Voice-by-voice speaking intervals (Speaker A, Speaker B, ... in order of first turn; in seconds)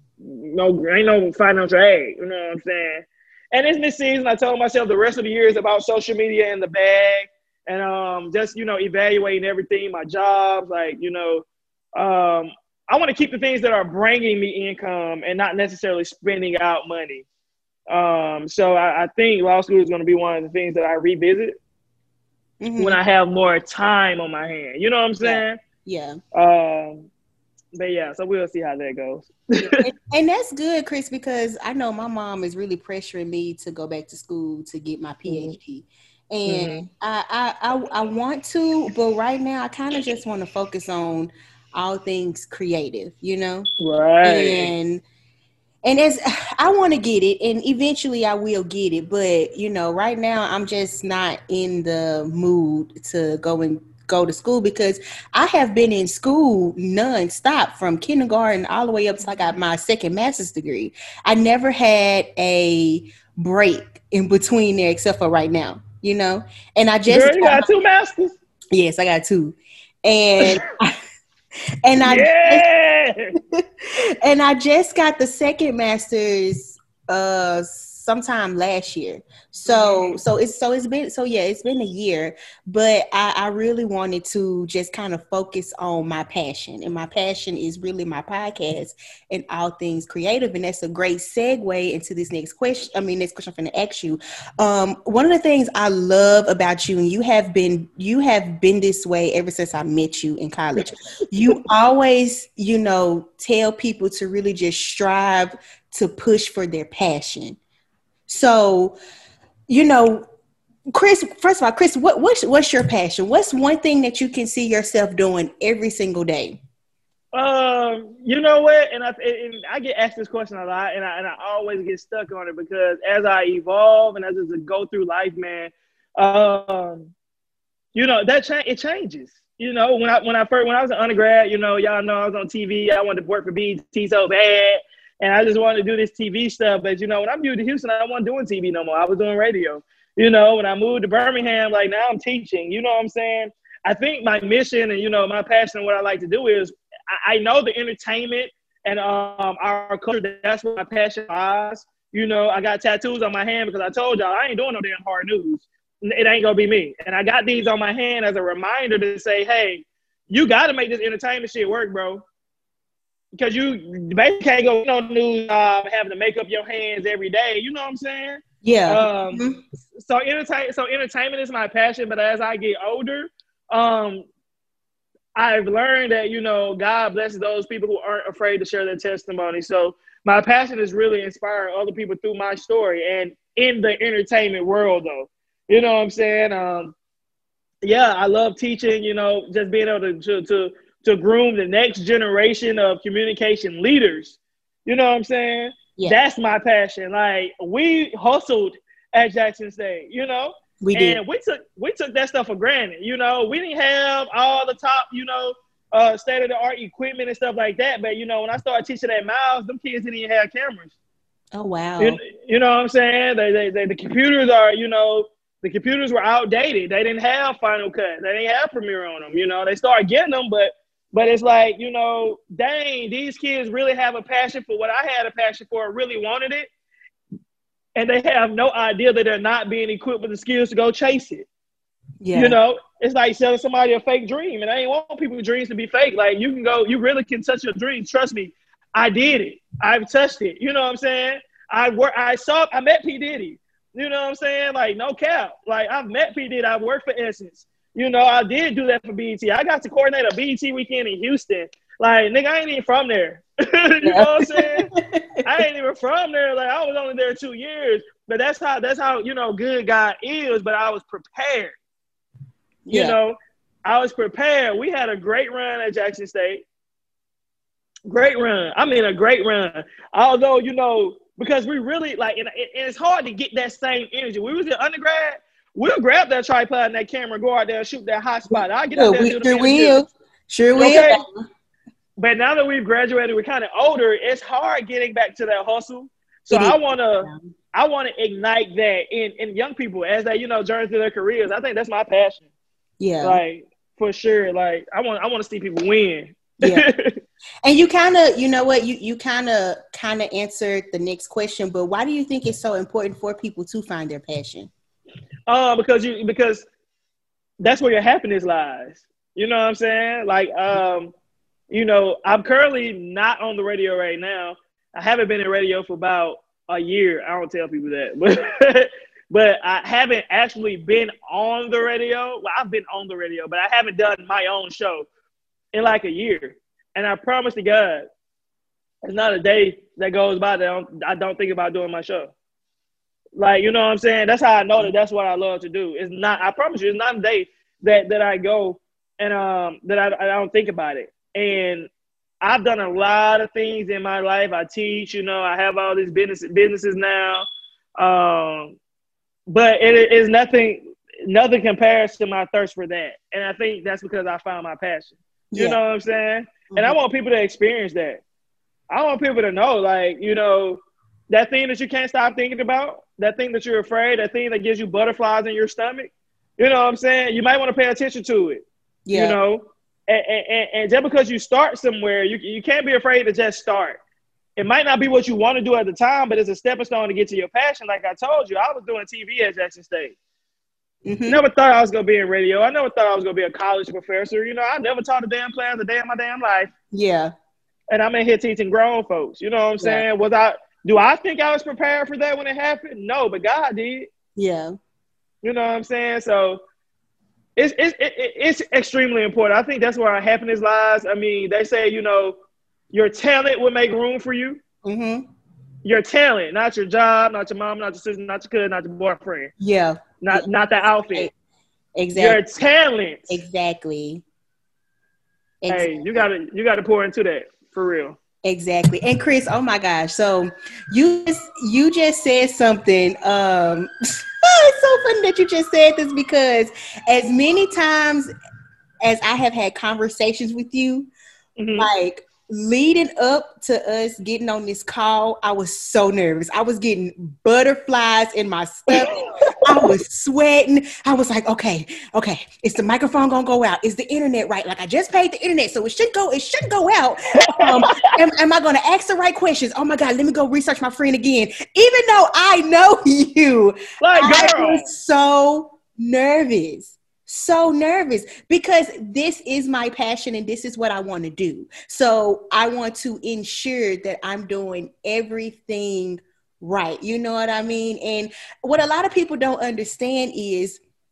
Speaker A: 0.2-17.2, 17.9-21.6, 22.8-25.6, 26.3-27.1, 27.8-29.8, 35.3-35.5, 36.5-36.8, 43.8-44.7, 67.1-68.4, 72.0-73.3, 79.7-80.2, 117.3-127.1, 128.0-162.2, 163.3-169.4, 170.0-174.3, 175.4-186.9, 187.8-210.9, 212.0-226.7, 228.0-231.5, 232.3-254.9, 255.4-261.8, 262.9-266.6, 268.1-280.0, 280.8-281.2, 282.2-292.4, 293.2-297.2, 305.5-306.7, 307.6-311.1, 311.7-325.1, 325.7-328.1, 329.0-332.3, 333.4-341.9, 342.4-347.4, 348.0-348.8, 349.5-358.2, 358.9-374.0, 374.6-380.2, 381.3-386.7, 387.9-394.1, 395.4-396.6, 397.6-402.4, 402.9-404.6, 405.8-409.5, 410.2-411.3, 412.1-413.3, 415.7-418.2, 431.6-431.9, 438.9-439.9, 447.4-447.8, 454.0-454.9
Speaker B: 22.6-23.0, 25.2-26.2, 29.6-43.7, 44.2-45.0, 45.8-67.7, 68.7-70.9, 71.8-72.6, 74.2-107.6, 108.3-109.0, 109.7-110.3, 110.9-116.6, 168.6-169.6, 200.8-201.2, 211.5-212.2, 232.2-232.6, 254.0-255.2, 262.9-263.1, 278.5-281.4, 286.5-287.4, 293.0-293.4, 296.6-296.9, 297.6-304.7, 355.5-355.8, 356.7-357.0, 369.1-369.4, 381.1-381.4, 386.9-387.3, 394.4-394.8, 404.8-405.2, 409.6-410.5, 412.0-412.4, 413.3-414.2, 415.6-416.3, 418.4-423.9, 424.4-428.3, 429.0-431.1, 431.8-470.8